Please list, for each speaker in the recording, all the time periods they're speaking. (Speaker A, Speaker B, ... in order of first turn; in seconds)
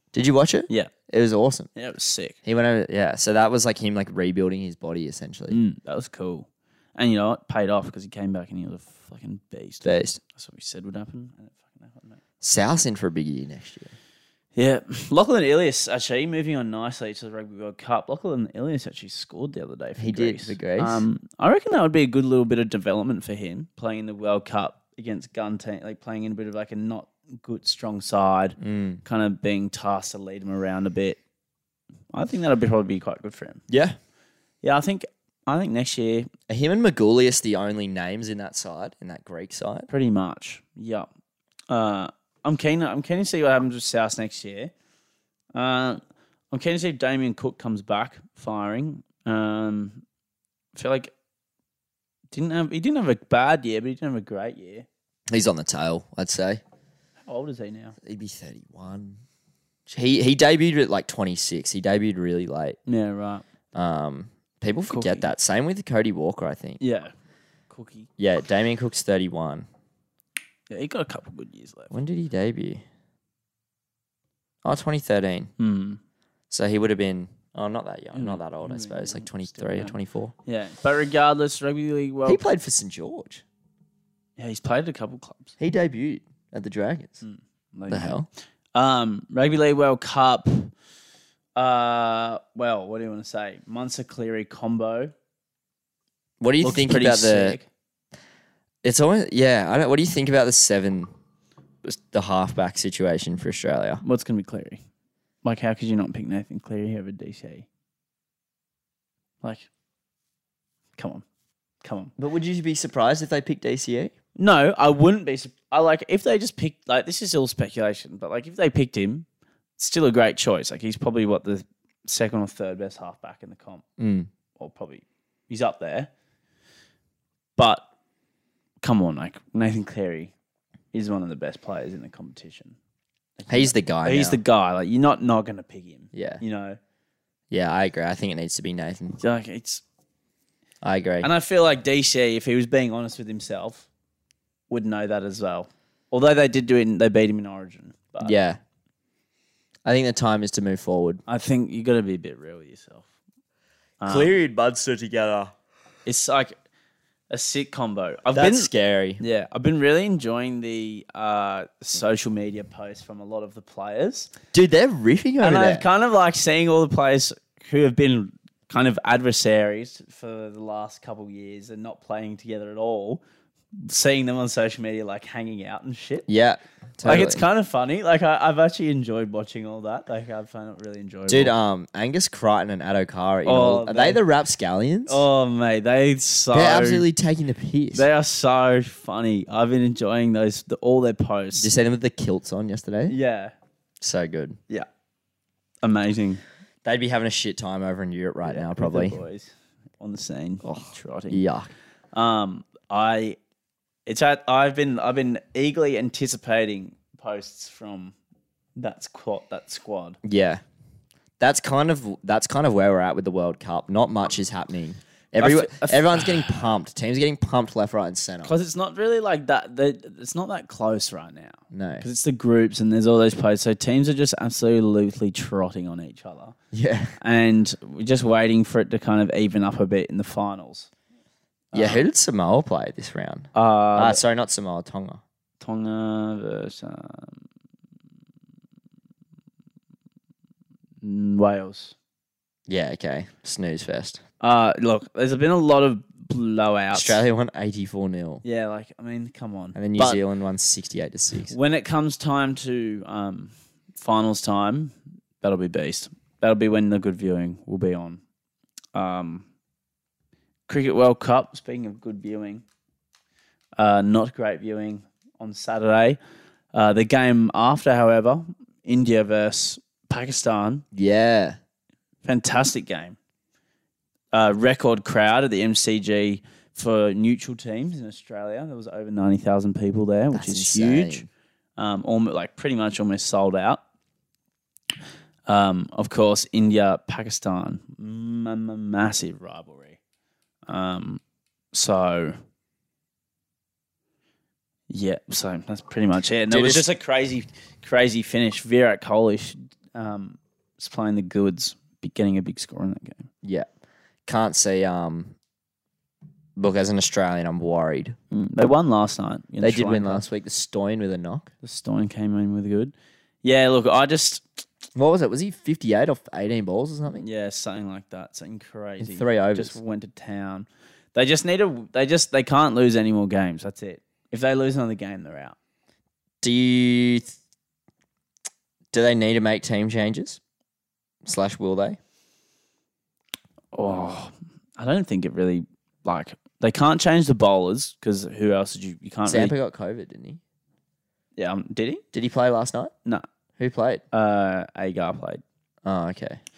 Speaker A: 0.1-1.7, 2.4-5.6, 9.8-10.2, 12.4-13.9, 20.0-21.1, 28.6-29.0, 33.7-34.0, 36.5-39.9, 55.3-56.6, 58.0-59.2, 59.9-62.8, 63.7-66.8, 68.2-69.7, 71.9-72.8, 74.6-75.5, 76.5-80.3, 82.2-83.4, 85.6-87.2, 87.9-88.3, 96.4-97.6, 98.8-101.1, 101.8-104.0, 112.2-114.1, 124.0-124.3, 133.5-134.4, 136.1-136.4, 137.5-139.2, 140.8-141.3, 148.2-148.6, 149.8-151.2, 154.1-155.5, 158.3-159.2, 164.5-165.8, 176.3-177.4, 181.3-185.2, 186.5-188.1, 191.6-193.2, 194.0-194.6, 196.8-199.2, 200.7-201.7, 210.2-210.6, 211.4-218.5, 221.7-222.1, 226.7-227.1, 231.7-235.2, 242.7-244.2, 246.9-248.4, 249.8-251.5, 270.9-271.6, 280.3-281.3, 296.5-296.9, 303.4-303.7, 304.3-305.4, 306.6-308.1, 309.6-311.5, 315.0-317.2, 319.0-319.8, 326.4-327.3, 328.9-330.4, 331.2-332.0, 339.3-340.4, 342.1-342.9, 343.6-344.0, 345.9-346.4
Speaker B: 1.8-2.4, 5.5-12.2, 14.6-31.2, 32.1-33.6, 34.6-36.3, 39.9-41.1, 41.7-44.7, 45.5-50.0, 50.8-51.1, 52.3-54.9, 57.3-58.0, 62.9-63.5, 64.9-65.3, 66.8-67.1, 67.7-68.1, 70.7-71.9, 75.6-76.0, 78.1-82.4, 84.4-85.5, 87.2-88.2, 88.7-90.7, 91.6-95.1, 96.6-97.7, 104.0-104.8, 105.4-107.7, 109.4-109.7, 111.0-111.2, 111.8-112.1, 114.4-119.3, 119.8-123.8, 124.6-126.1, 127.6-127.8, 128.8-130.3, 130.9-132.8, 133.4-136.8, 139.2-139.8, 141.2-143.9, 144.7-148.4, 151.3-153.1, 154.0-154.3, 156.1-156.6, 157.3-164.3, 165.4-173.2, 173.8-176.3, 177.0-181.5, 183.4-184.2, 185.1-187.1, 187.9-191.7, 193.1-193.5, 195.8-196.4, 198.4-201.4, 202.1-203.4, 204.1-208.1, 208.8-210.2, 215.4-216.7, 218.4-226.6, 227.2-230.9, 231.7-232.0, 233.5-234.2, 235.6-237.4, 241.0-241.9, 244.4-247.2, 248.4-250.2, 251.5-258.2, 258.9-259.4, 260.7-262.6, 263.8-266.2, 266.7-270.9, 272.2-273.2, 274.3-283.8, 285.5-290.0, 290.7-291.2, 291.7-292.4, 294.9-303.3, 308.3-310.2, 311.6-314.6, 317.2-325.6, 333.7-339.5, 341.4-342.0, 344.1-345.4